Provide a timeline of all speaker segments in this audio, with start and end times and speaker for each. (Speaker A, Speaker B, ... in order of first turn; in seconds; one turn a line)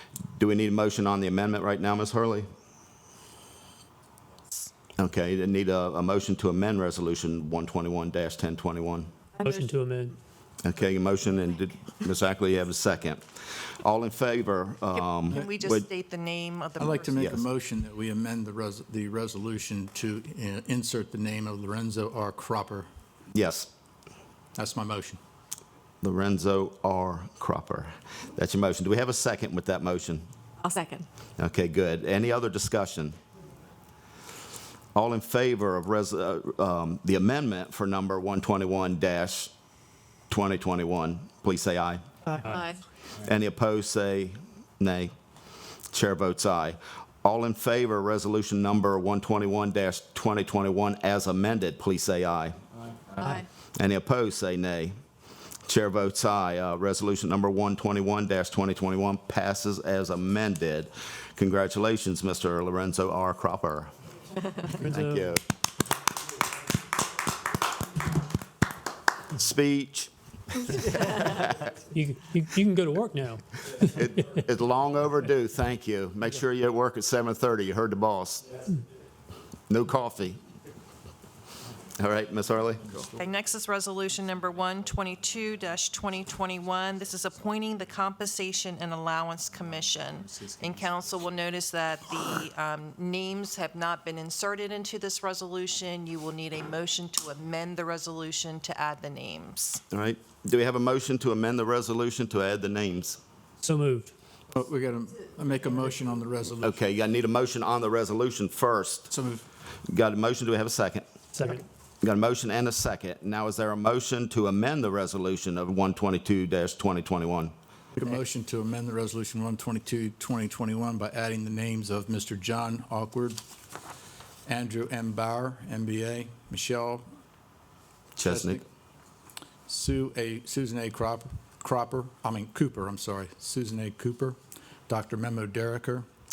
Speaker A: 0.4-2.5
Speaker A: 5.0-9.1
Speaker B: 9.4-10.2
Speaker A: 10.6-15.8
Speaker C: 14.9-17.2
Speaker D: 16.8-22.9
Speaker A: 17.2-17.4
Speaker A: 23.3-23.7
Speaker D: 24.6-25.2
Speaker A: 26.0-30.2
Speaker C: 30.6-31.1
Speaker A: 31.4-33.2
Speaker A: 34.9-39.5
Speaker A: 40.3-42.0
Speaker C: 42.4-42.8
Speaker A: 43.2-45.1
Speaker A: 45.9-52.5
Speaker C: 53.2-53.5
Speaker A: 53.8-55.0
Speaker A: 55.7-63.9
Speaker B: 64.7-65.3
Speaker A: 64.8-65.4
Speaker A: 69.3-70.1
Speaker B: 70.7-71.0
Speaker A: 70.9-71.5
Speaker B: 71.8-74.0
Speaker A: 73.8-78.5
Speaker A: 79.7-80.4
Speaker A: 82.0-83.1
Speaker C: 83.2-99.8
Speaker A: 99.9-103.2
Speaker B: 103.6-104.1
Speaker D: 104.5-106.8
Speaker A: 106.6-109.1
Speaker D: 109.1-109.4
Speaker A: 109.9-111.0
Speaker B: 111.3-111.6
Speaker A: 112.0-117.5
Speaker D: 117.9-123.4
Speaker D: 124.5-127.0
Speaker A: 128.2-128.6
Speaker D: 128.2-128.6
Speaker D: 129.7-136.1